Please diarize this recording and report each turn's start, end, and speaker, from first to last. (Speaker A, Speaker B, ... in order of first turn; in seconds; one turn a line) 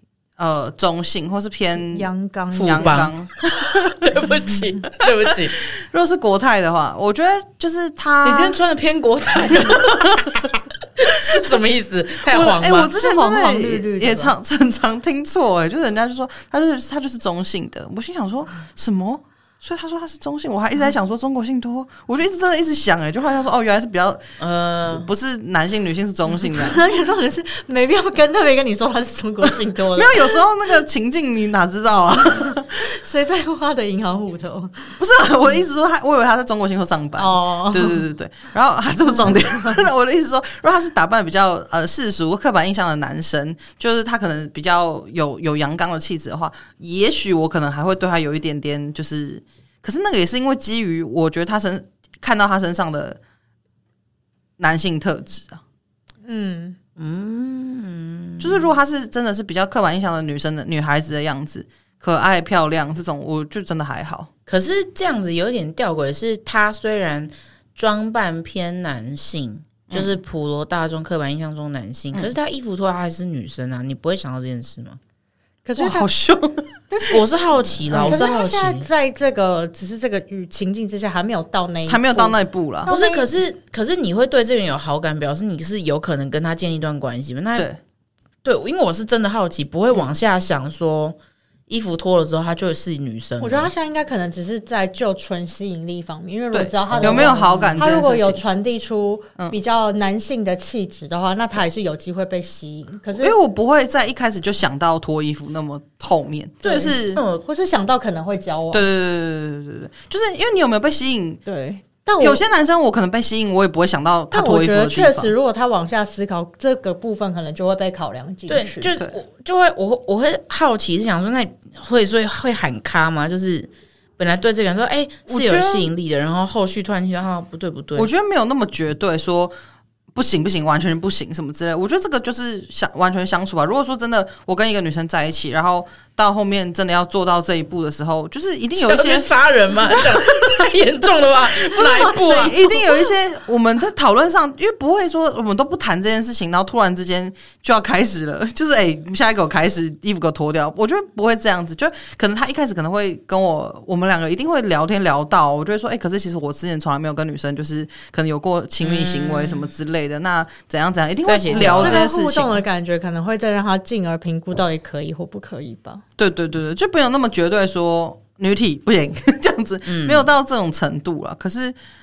Speaker A: 0.4-2.1
Speaker B: 1.9-3.1
Speaker C: 2.5-5.6
Speaker A: 2.6-4.3
Speaker A: 5.0-8.6
Speaker C: 8.2-12.9
Speaker A: 12.3-24.2
Speaker B: 12.9-14.3
Speaker C: 24.4-25.1
Speaker A: 24.9-26.8
Speaker B: 26.5-30.4
Speaker A: 30.0-32.8
Speaker B: 32.8-35.0
Speaker A: 35.0-53.2
Speaker B: 37.2-38.0
Speaker A: 54.6-55.6
Speaker B: 56.2-56.8
Speaker C: 57.0-58.7
Speaker A: 58.4-64.3
Speaker C: 64.5-75.0
Speaker A: 69.9-70.2
Speaker B: 75.7-76.1
Speaker A: 75.8-76.7
Speaker B: 76.9-77.2
Speaker C: 77.1-78.9
Speaker B: 77.9-83.3
Speaker A: 77.9-78.3
Speaker A: 81.9-82.9
Speaker C: 82.9-87.7
Speaker C: 88.4-91.2
Speaker C: 91.7-93.7
Speaker B: 93.4-103.3
Speaker A: 96.5-98.4
Speaker C: 96.9-97.9
Speaker A: 103.2-107.2
Speaker C: 106.6-107.4
Speaker B: 106.7-108.8
Speaker A: 108.7-111.4
Speaker B: 111.5-112.4
Speaker A: 112.2-115.3
Speaker B: 114.3-118.9
Speaker C: 118.5-128.1
Speaker A: 125.3-125.9
Speaker A: 128.0-129.5
Speaker A: 130.1-139.3
Speaker C: 138.8-142.6
Speaker A: 141.8-162.6
Speaker B: 141.8-142.8
Speaker C: 158.8-159.7
Speaker C: 161.2-162.0
Speaker B: 161.5-166.0
Speaker A: 166.2-171.8
Speaker C: 169.9-170.3